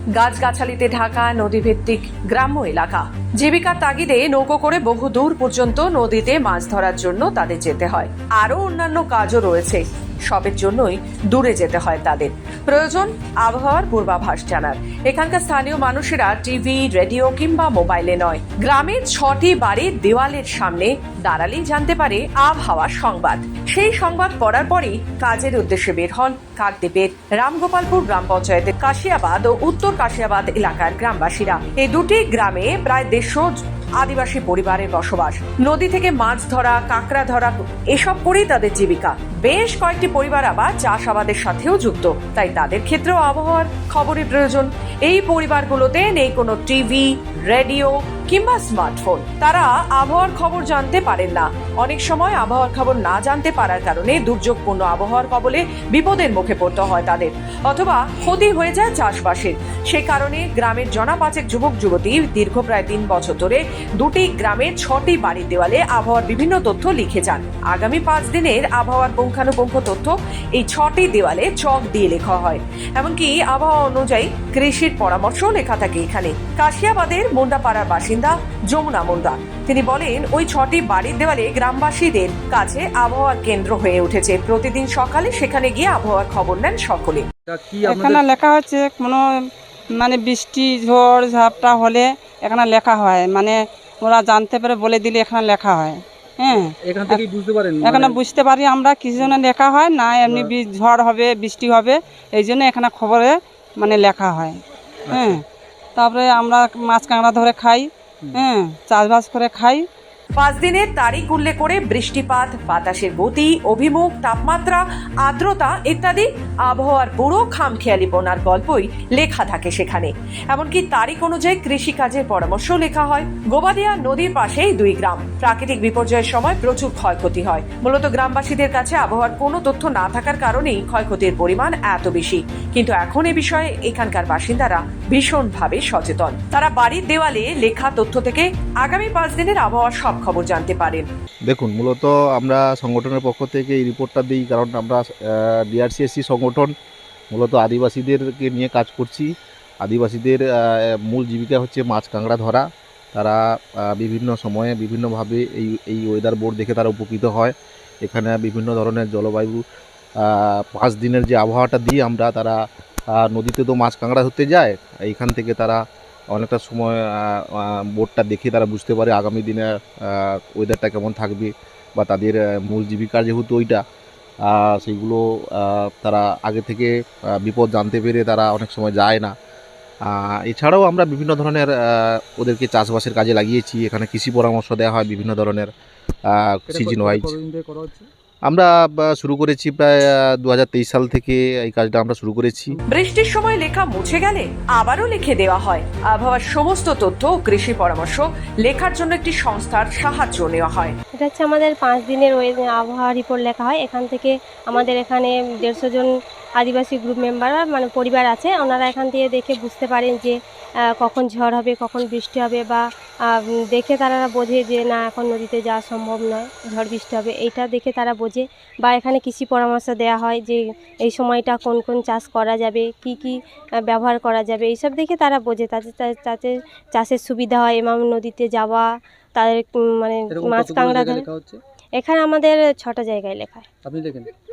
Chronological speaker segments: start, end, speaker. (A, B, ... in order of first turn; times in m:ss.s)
0:00.1-1:27.3 A
1:27.4-1:28.2 B
1:27.8-1:37.2 C
1:36.8-1:38.2 B
1:37.8-1:44.6 C
1:40.2-1:40.5 B
1:45.1-1:45.4 B
1:45.1-1:45.4 C
1:46.0-1:49.8 C
1:50.4-2:21.0 A
2:21.5-2:26.7 D
2:27.3-2:29.3 D
2:29.8-2:39.6 D
2:40.2-2:42.6 D
2:43.1-2:53.8 D
2:54.4-2:59.3 D
3:00.0-3:05.7 D
3:06.3-3:07.4 D
3:06.7-3:08.1 B
3:08.5-3:12.8 D
3:12.9-3:20.9 A
3:21.2-3:30.4 E
3:30.9-3:43.4 E
3:43.9-3:51.2 E
3:50.3-3:51.6 B
3:52.0-3:53.7 E
3:53.8-3:54.3 B